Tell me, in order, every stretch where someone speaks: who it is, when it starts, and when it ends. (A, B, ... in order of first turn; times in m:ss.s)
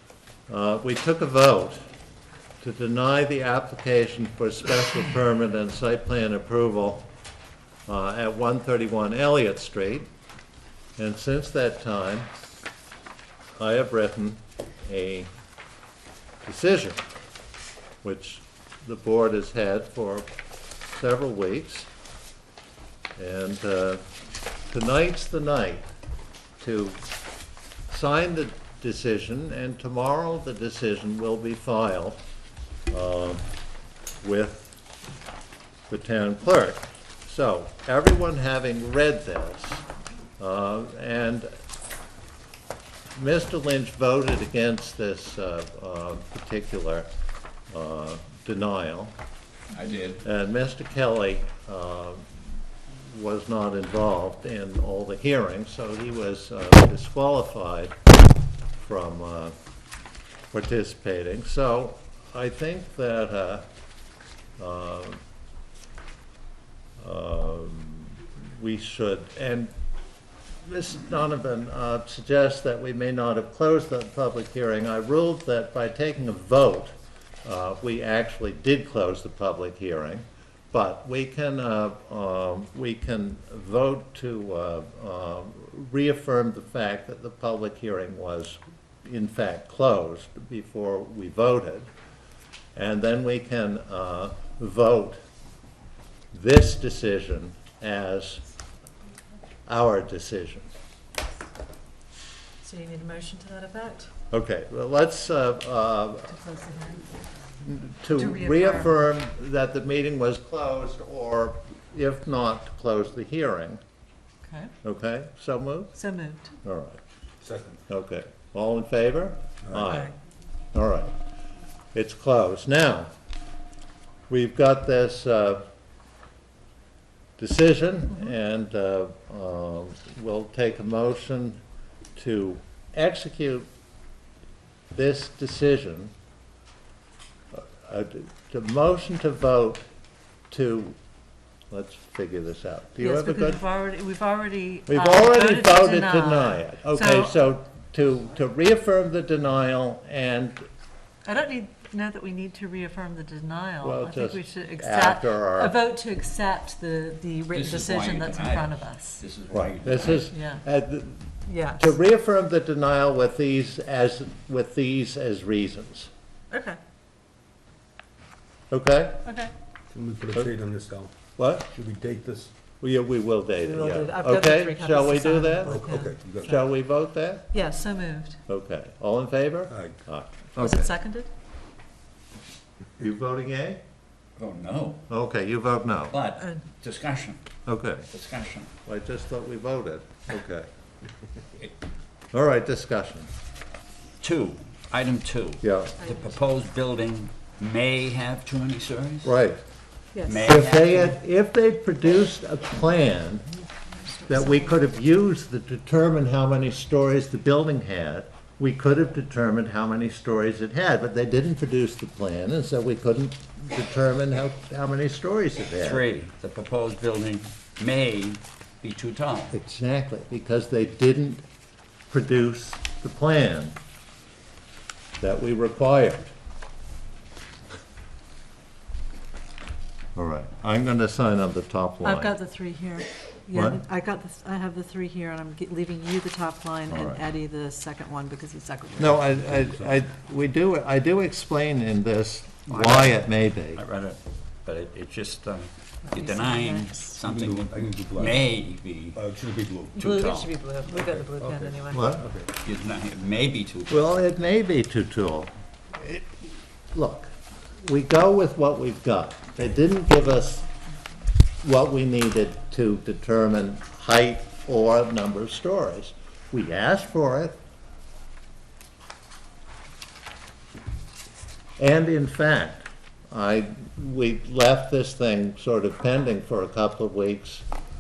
0:00.5-0:01.8 A
0:02.6-0:07.1 A
0:07.9-0:10.1 A
0:11.0-0:12.3 A
0:13.6-0:15.3 A
0:16.4-0:17.0 A
0:18.0-0:20.3 A
0:20.9-0:21.9 A
0:23.2-0:24.0 A
0:24.7-0:25.9 A
0:26.6-0:27.0 A
0:27.9-0:32.2 A
0:32.9-0:33.4 A
0:34.2-0:34.8 A
0:35.9-0:39.9 A
0:40.4-0:41.5 A
0:43.2-0:47.1 A
0:47.7-0:49.2 A
0:49.7-0:50.2 B
0:50.2-0:52.2 A
0:53.0-0:58.0 A
0:58.8-0:59.6 A
1:00.5-1:03.7 A
1:04.6-1:05.2 A
1:07.0-1:09.7 A
1:10.6-1:31.9 A
1:32.8-1:35.2 A
1:36.3-1:38.4 A
1:39.7-1:40.7 A
1:42.6-1:44.1 C
1:44.3-1:46.4 A
1:46.3-1:47.2 C
1:47.6-1:53.8 A
1:48.1-1:48.9 C
1:54.4-1:54.7 C
1:54.8-1:56.0 A
1:56.0-1:56.5 C
1:56.6-1:57.0 A
1:57.4-1:57.8 D
1:57.9-2:00.1 A
2:00.7-2:01.1 A
2:01.9-2:03.1 A
2:04.3-2:05.6 A
2:07.4-2:11.6 A
2:12.2-2:13.7 A
2:14.9-2:16.1 A
2:17.5-2:19.9 A
2:20.5-2:21.0 A
2:21.7-2:23.6 A
2:23.0-2:27.3 C
2:24.9-2:30.7 A
2:31.2-2:39.2 C
2:33.8-2:35.8 A
2:37.5-2:40.2 B
2:39.5-2:46.1 A
2:40.3-2:40.6 C
2:41.4-2:41.9 C
2:46.5-2:46.8 C
2:48.7-2:49.2 A
2:49.2-2:49.5 C
2:49.9-2:51.1 D
2:51.4-2:51.7 A
2:51.7-2:52.5 D
2:52.8-2:57.5 A
2:53.6-2:56.6 C
2:55.7-2:56.6 D
2:57.5-2:58.4 C
2:58.5-3:00.9 A
2:59.7-3:00.0 D
3:00.6-3:01.3 C
3:03.0-3:03.8 A
3:04.4-3:05.0 B
3:05.1-3:06.2 A
3:06.1-3:07.4 B
3:07.7-3:08.1 A
3:08.1-3:08.7 B
3:08.9-3:10.7 A
3:12.3-3:13.3 A
3:14.2-3:19.3 B
3:15.6-3:16.0 A
3:16.0-3:16.4 C
3:19.2-3:19.6 A
3:20.1-3:20.4 C
3:20.2-3:21.2 B
3:20.4-3:23.5 A
3:24.0-3:24.7 C
3:24.3-3:36.0 A
3:35.8-3:39.6 B
3:39.5-3:41.4 A
3:42.1-3:43.8 A
3:45.2-3:46.3 A
3:50.2-3:52.4 A
3:52.0-3:59.2 C
3:53.5-3:53.8 A
3:56.9-3:57.2 A
3:59.0-4:03.8 A
3:59.2-4:00.0 D
4:02.7-4:03.2 B
4:03.7-4:09.2 B
4:06.1-4:07.2 C
4:07.2-4:08.5 D
4:09.1-4:10.1 D
4:10.0-4:12.1 C
4:10.0-4:10.5 B
4:10.9-4:12.5 D
4:11.9-4:12.2 A
4:12.6-4:14.1 B
4:13.9-4:20.7 A
4:21.6-4:27.6 A
4:31.8-4:37.6 A